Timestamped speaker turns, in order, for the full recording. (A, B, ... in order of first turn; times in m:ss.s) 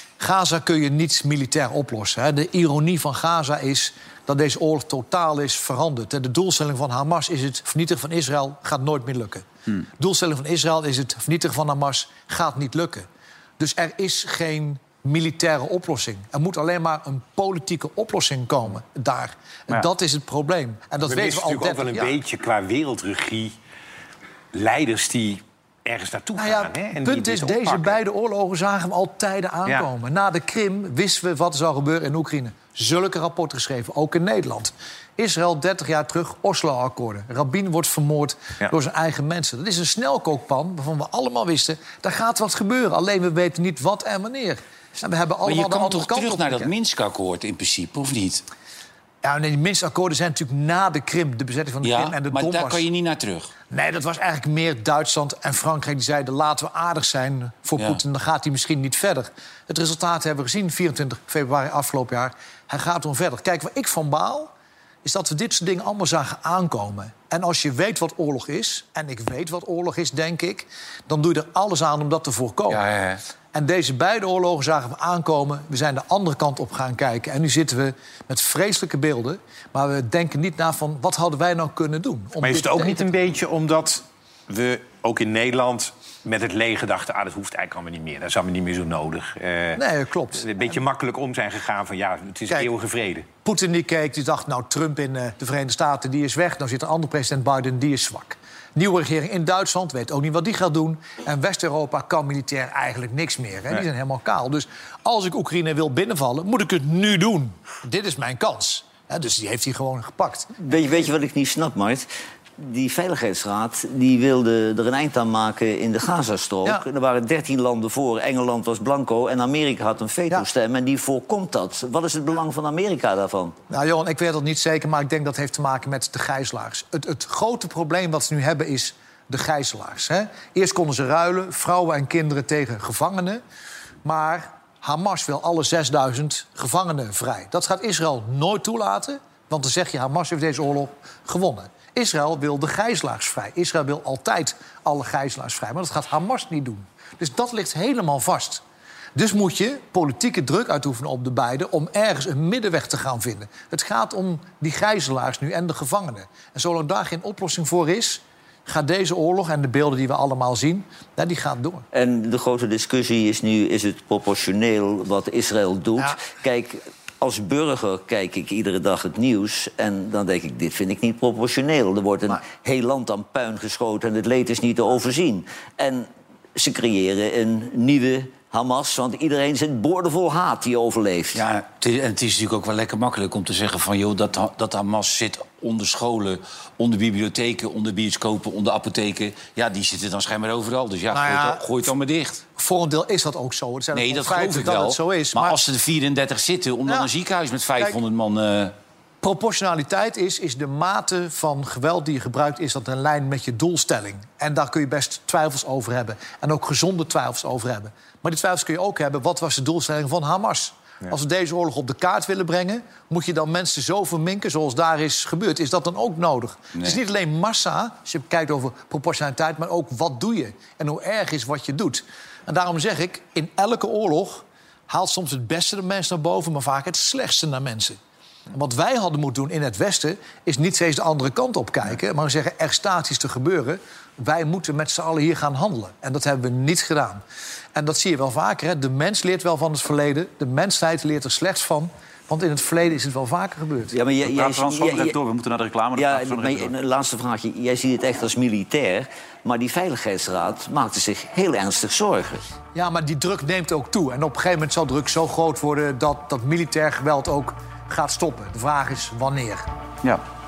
0:00.2-0:09.4 A
0:10.0-0:13.1 A
0:13.6-0:22.2 A
0:21.0-0:23.6 B
0:24.5-0:28.0 B
0:26.4-0:46.7 A
0:45.4-0:48.4 C
0:49.2-0:52.9 A
0:51.8-0:53.5 C
0:53.7-1:04.5 A
0:57.8-0:58.0 C
1:05.0-1:12.9 A
1:12.7-1:13.2 C
1:13.5-1:23.1 A
1:22.4-1:33.3 B
1:29.8-1:30.8 A
1:33.4-1:50.5 A
1:50.6-1:52.1 D
1:52.6-2:03.6 D
2:03.7-2:13.4 A
2:14.0-2:28.6 A
2:29.2-2:41.8 A
2:41.9-3:01.4 D
3:01.3-3:12.4 C
3:11.1-3:11.9 A
3:12.6-3:15.6 A
3:13.9-3:18.8 C
3:16.9-3:17.1 A
3:19.2-3:48.0 A
3:36.7-3:37.0 C
3:48.5-3:57.2 A
3:57.8-4:03.9 A
4:03.9-4:05.2 D
4:04.3-4:06.7 E
4:06.0-4:12.4 D
4:12.8-4:19.7 A